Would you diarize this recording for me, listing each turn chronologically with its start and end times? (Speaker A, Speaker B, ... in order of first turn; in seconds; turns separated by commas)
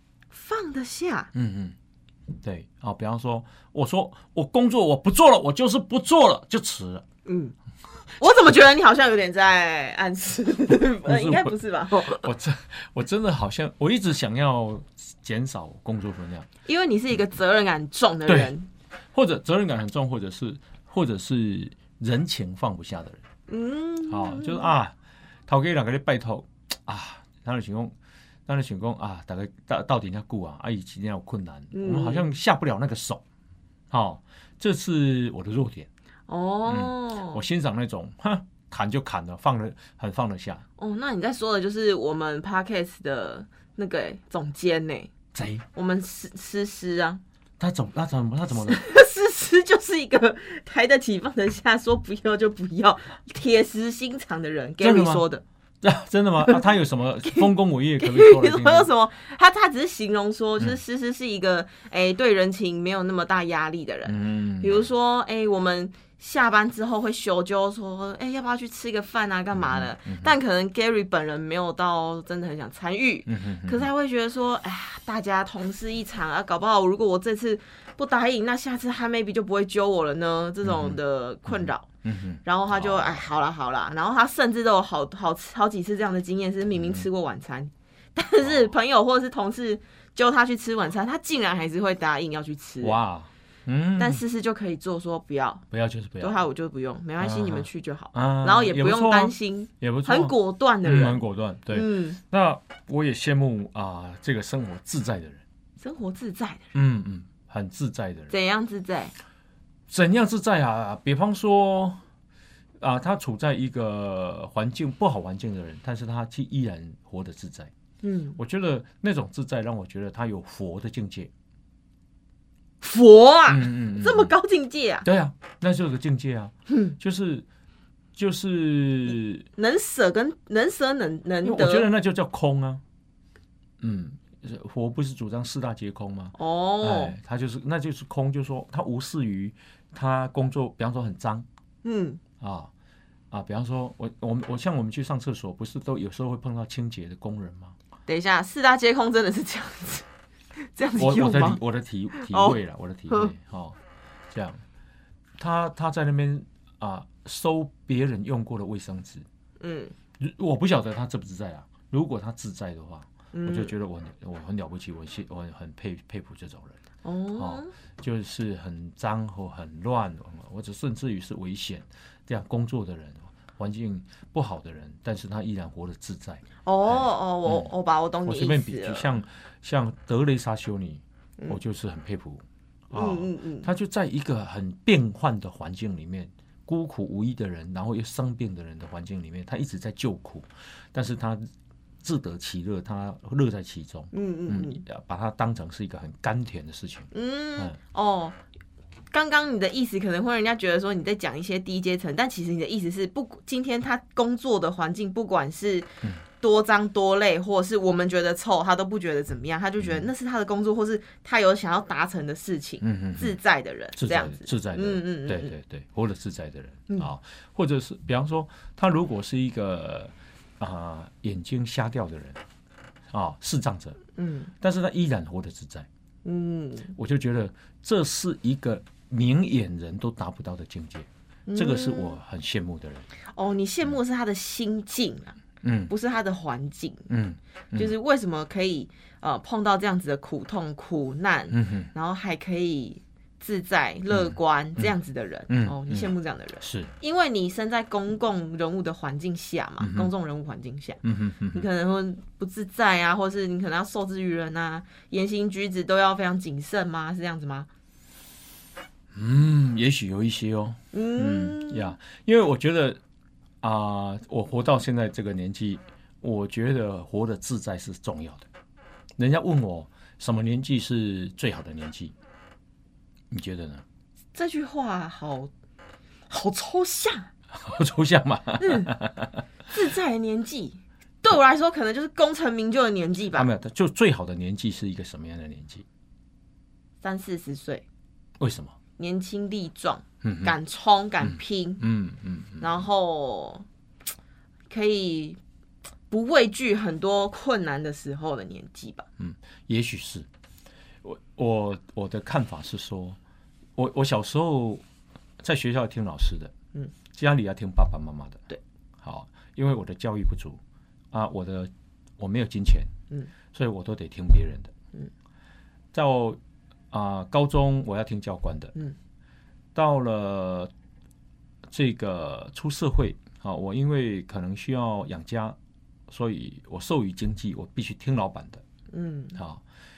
Speaker A: 0.3-1.3, Speaker B: 1.3-1.8, Speaker B: 2.4-7.0, Speaker A: 7.3-7.5, Speaker A: 8.2-12.2, Speaker B: 10.7-16.5, Speaker A: 16.6-18.7, Speaker B: 18.3-18.5, Speaker B: 19.1-23.2, Speaker A: 23.5-24.7, Speaker B: 24.1-24.9, Speaker B: 25.5-27.9, Speaker B: 28.5-33.2, Speaker A: 31.7-32.4, Speaker B: 33.9-35.9, Speaker A: 36.3-37.4, Speaker B: 36.7-40.6, Speaker A: 40.8-45.1, Speaker B: 45.3-45.6, Speaker A: 45.8-47.2, Speaker B: 47.6-48.8, Speaker A: 48.7-55.4, Speaker B: 54.8-55.3, Speaker B: 55.8-58.9, Speaker A: 58.0-81.9, Speaker B: 64.1-64.8, Speaker B: 69.5-70.3, Speaker B: 73.3-73.9, Speaker B: 80.6-83.2, Speaker A: 82.4-93.0, Speaker B: 86.8-87.0, Speaker B: 92.8-94.2, Speaker A: 94.0-95.7, Speaker B: 95.7-96.4, Speaker A: 96.2-102.2, Speaker B: 97.2-105.4, Speaker A: 105.8-106.7, Speaker B: 106.7-108.3, Speaker A: 108.3-109.1, Speaker B: 109.9-112.0, Speaker B: 112.8-117.7, Speaker A: 118.0-118.4, Speaker B: 118.4-121.3, Speaker A: 122.8-125.1, Speaker B: 123.5-124.3, Speaker B: 125.0-127.5, Speaker A: 126.7-127.0, Speaker B: 128.2-129.5, Speaker A: 129.6-131.9, Speaker B: 131.4-132.8, Speaker B: 133.8-141.5, Speaker A: 136.4-137.2, Speaker A: 141.8-142.2, Speaker B: 142.4-142.7, Speaker B: 143.3-147.8, Speaker A: 148.1-150.1, Speaker A: 150.6-151.6, Speaker B: 151.0-153.8, Speaker A: 152.1-152.6, Speaker B: 154.3-154.6, Speaker B: 155.4-159.2, Speaker A: 159.6-159.9, Speaker B: 160.2-166.8, Speaker A: 163.3-163.7, Speaker A: 167.0-167.7, Speaker B: 167.4-177.7, Speaker A: 176.7-179.1, Speaker B: 178.2-191.5, Speaker A: 182.9-183.7, Speaker B: 192.0-197.8, Speaker A: 194.1-194.8, Speaker A: 197.1-198.4, Speaker A: 199.1-215.5, Speaker B: 209.8-210.1, Speaker B: 212.8-213.4, Speaker B: 213.9-222.4, Speaker B: 223.1-224.0, Speaker A: 224.2-224.5, Speaker B: 224.6-225.9, Speaker A: 226.2-226.9, Speaker B: 226.9-233.1, Speaker A: 231.5-232.2, Speaker A: 233.3-235.4, Speaker B: 235.6-235.9, Speaker A: 235.9-237.1, Speaker B: 237.1-237.9, Speaker A: 237.8-251.0, Speaker B: 241.5-241.9, Speaker B: 244.1-244.9, Speaker B: 245.5-246.9, Speaker B: 249.8-250.1, Speaker B: 251.0-251.7, Speaker A: 251.5-257.7, Speaker B: 259.1-263.0, Speaker A: 260.9-261.9, Speaker B: 263.6-268.5, Speaker B: 269.2-272.1, Speaker B: 273.3-273.8, Speaker A: 274.4-275.5, Speaker A: 276.3-277.3, Speaker B: 277.6-279.4, Speaker A: 278.6-278.9, Speaker A: 279.7-283.5, Speaker B: 283.4-285.9, Speaker A: 287.0-287.9, Speaker B: 288.4-288.8, Speaker A: 289.0-291.8, Speaker B: 290.2-290.6, Speaker B: 291.2-292.6, Speaker A: 292.6-293.6, Speaker A: 294.7-295.4, Speaker A: 296.1-299.1, Speaker B: 299.2-300.3, Speaker B: 301.0-303.2, Speaker B: 303.8-304.8, Speaker B: 305.4-306.5, Speaker B: 307.1-308.4, Speaker B: 309.0-310.6, Speaker B: 311.1-312.9, Speaker B: 313.5-314.7, Speaker B: 315.9-316.4, Speaker B: 316.9-318.8, Speaker B: 319.8-320.7, Speaker B: 321.7-325.6, Speaker B: 326.1-328.6, Speaker A: 328.9-329.4, Speaker B: 329.4-329.6